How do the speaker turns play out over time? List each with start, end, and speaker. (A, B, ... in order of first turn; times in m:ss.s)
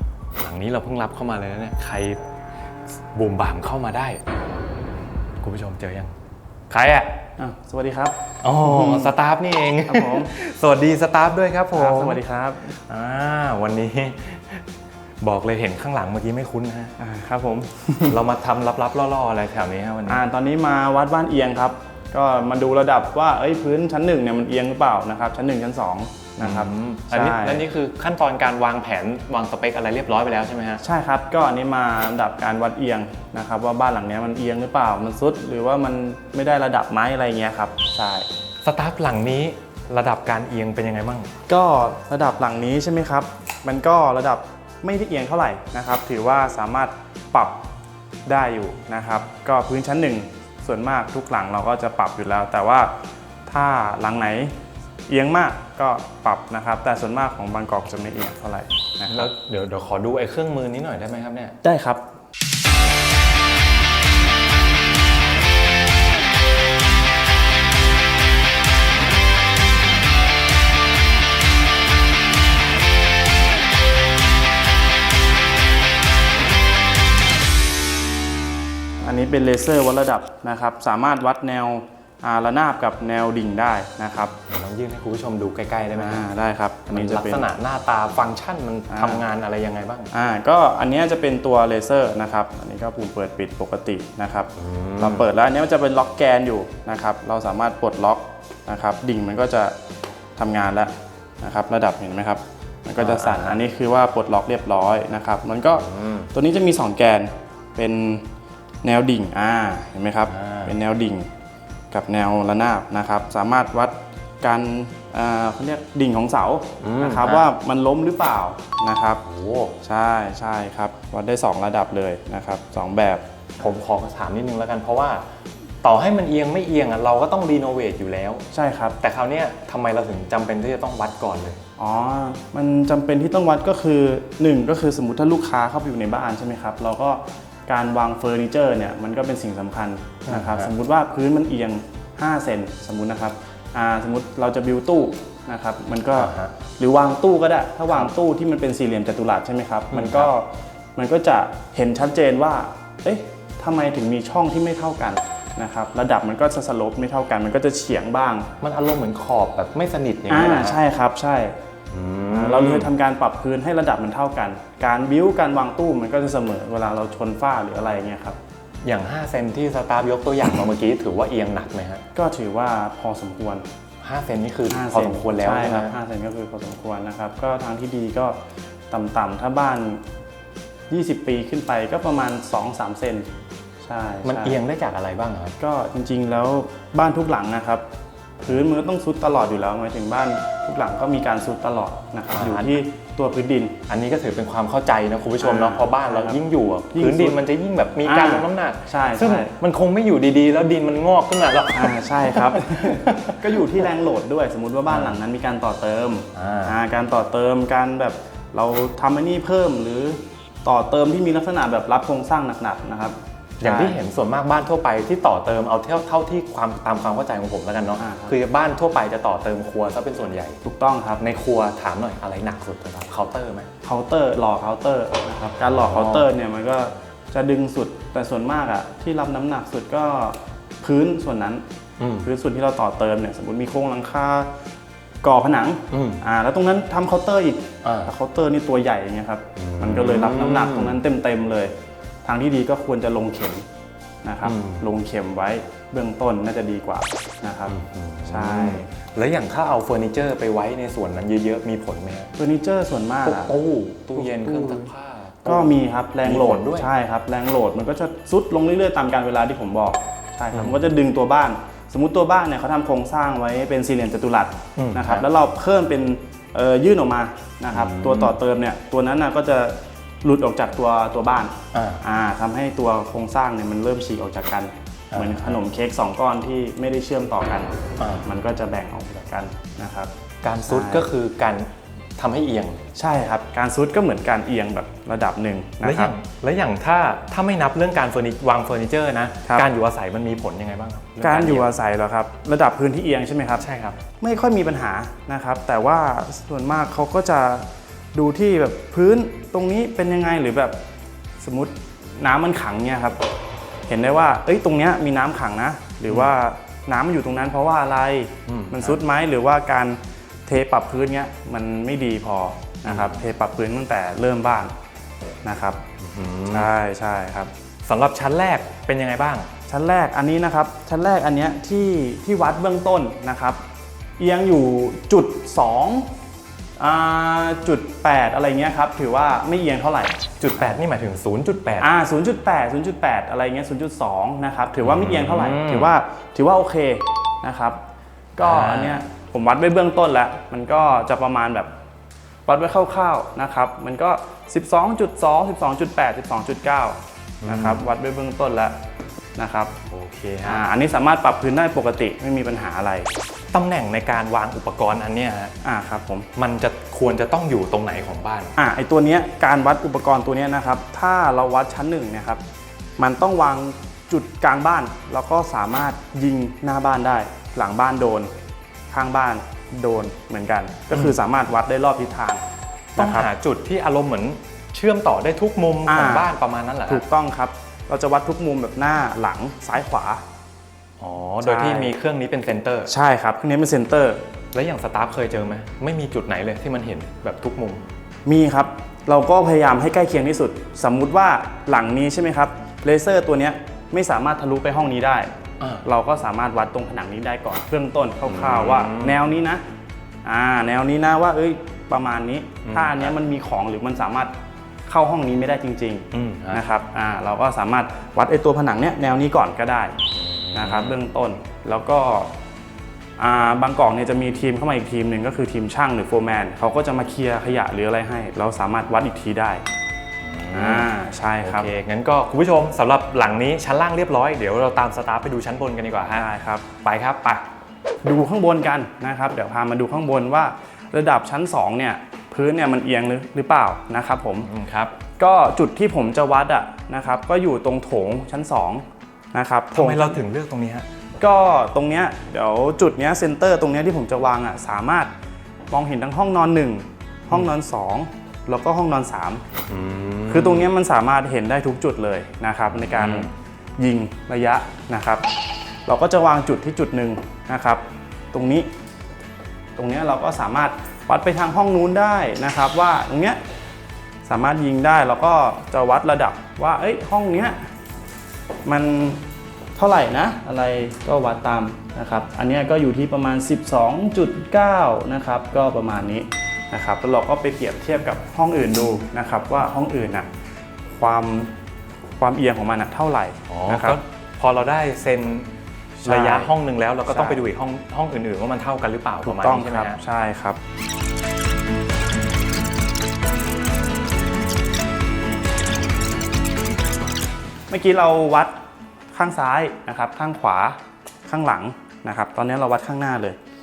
0:00.4-0:02.2 A
0:03.1-0:04.2 A
0:05.4-0:06.1 A
0:06.7-0:07.2 A
0:07.3-0:09.2 B
0:08.4-0:12.2 A
0:09.8-0:10.3 B
0:11.7-0:12.8 B
0:12.8-0:14.6 A
0:15.2-0:17.0 A
0:17.0-0:18.2 B
0:18.1-0:20.2 A
0:20.1-0:27.7 B
0:26.4-0:30.8 A
0:30.8-0:38.3 B
0:38.6-0:41.3 A
0:41.5-0:47.6 B
0:48.3-0:52.9 B
0:53.5-0:54.5 B
0:55.1-0:59.3 B
0:59.1-1:01.6 A
1:01.6-1:02.0 B
1:19.0-1:24.4 B
1:24.5-1:26.3 A
1:26.0-1:27.5 B
1:26.9-1:30.1 A
1:28.9-1:29.2 B
1:30.1-1:39.8 B
1:34.6-1:35.2 A
1:40.4-1:48.2 B
1:43.0-1:43.6 A
1:45.8-1:46.3 A
1:48.8-1:51.3 B
1:50.3-1:50.8 A
1:51.9-1:59.2 B
1:56.8-1:57.4 A
1:59.2-1:59.8 A
1:59.8-2:03.2 B
2:03.6-2:05.2 A
2:05.8-2:08.4 A
2:08.5-2:09.0 B
2:09.0-2:11.6 A
2:11.8-2:38.5 B
2:20.3-2:20.7 A
2:26.2-2:26.6 A
2:29.9-2:30.3 A
2:38.6-2:40.8 A
2:40.3-2:41.6 B
2:41.9-2:42.9 A
2:42.3-2:48.4 B
2:48.8-2:52.0 A
2:52.1-2:53.7 B
2:54.0-2:56.0 A
2:54.7-2:58.4 B
2:58.9-3:00.0 B
3:00.9-3:03.3 B
3:03.8-3:04.6 B
3:04.2-3:05.6 A
3:05.6-3:07.8 B
3:08.4-3:13.8 B
3:12.3-3:12.7 A
3:13.9-3:23.6 A
3:15.4-3:16.4 B
3:16.9-3:17.4 B
3:18.0-3:19.6 B
3:21.7-3:34.0 B
3:24.9-3:25.2 A
3:26.4-3:26.8 A
3:33.6-3:40.6 A
3:38.0-3:38.4 B
3:40.6-3:41.2 B
3:41.2-3:43.7 A
3:43.8-3:51.6 B
3:45.8-3:46.3 A
3:52.0-3:52.3 A
3:52.2-3:54.5 B
3:55.2-4:01.7 B
3:55.9-3:56.2 A
3:57.8-3:58.1 A
3:59.6-4:01.0 A
4:02.2-4:03.6 B
4:04.2-4:07.7 B
4:04.4-4:04.8 A
4:07.7-4:12.3 A
4:08.3-4:08.9 B
4:12.4-4:13.6 B
4:13.2-4:16.9 A
4:14.1-4:14.9 B
4:15.4-4:40.1 B
4:20.5-4:20.8 A
4:24.8-4:25.2 A
4:27.7-4:28.4 A
4:31.7-4:32.0 A
4:35.1-4:35.6 A
4:38.0-4:38.3 A
4:40.4-4:42.8 A
4:40.7-4:41.1 B
4:43.0-4:46.1 B
4:45.8-4:51.7 A
4:51.2-4:53.6 B
4:53.6-4:54.0 A
4:54.2-5:00.8 B
5:01.4-5:03.2 B
5:03.9-5:14.7 B
5:08.5-5:09.0 A
5:12.9-5:13.2 A
5:15.4-5:15.8 B
5:16.0-5:16.7 A
5:16.5-5:17.5 B
5:17.8-5:19.5 A
5:19.7-5:23.6 B
5:24.2-5:26.1 B
5:26.8-5:30.2 B
5:30.4-5:31.9 A
5:31.8-5:37.8 B
5:34.8-5:35.9 A
5:38.4-5:41.7 B
5:38.4-5:39.0 A
5:42.5-5:48.8 B
5:47.4-5:47.8 A
5:49.4-5:49.7 B
5:49.9-5:50.7 A
5:50.4-5:53.1 B
5:53.5-5:55.6 A
5:55.6-5:56.3 B
5:56.4-5:58.6 A
5:58.6-6:02.4 B
6:03.0-6:08.3 B
6:08.9-6:12.4 B
6:13.0-6:13.3 B
6:13.0-6:17.0 A
6:15.9-6:16.3 B
6:16.9-6:20.2 B
6:21.0-6:22.9 A
6:21.4-6:21.9 B
6:22.9-6:24.2 B
6:24.5-6:27.8 A
6:28.3-6:35.3 B
6:35.6-6:35.8 A
6:35.8-6:39.6 B
6:38.3-6:39.2 A
6:40.2-6:44.3 B
6:42.6-6:43.1 A
6:44.9-6:50.0 B
6:46.1-6:46.6 A
6:50.2-6:51.0 A
6:50.5-6:52.3 B
6:53.2-6:59.6 B
7:00.2-7:00.9 A
7:00.5-7:01.7 B
7:01.4-7:06.3 A
7:06.1-7:06.7 B
7:06.8-7:07.4 A
7:08.0-7:14.5 B
7:14.4-7:15.0 A
7:15.2-7:20.2 B
7:19.7-7:20.9 A
7:21.2-7:25.1 B
7:25.7-7:29.4 B
7:29.7-7:30.7 A
7:30.3-7:35.2 B
7:32.7-7:33.3 A
7:35.9-7:37.8 B
7:38.3-7:38.7 B
7:39.8-7:43.4 B
7:44.3-7:47.6 B
7:48.6-7:49.2 B
7:49.8-8:00.3 B
8:00.9-8:01.5 B
8:02.2-8:04.0 B
8:03.5-8:05.5 A
8:06.0-8:06.5 B
8:06.0-8:10.0 A
8:07.1-8:07.5 B
8:09.2-8:10.6 B
8:17.7-8:18.6 B
8:19.1-8:23.4 B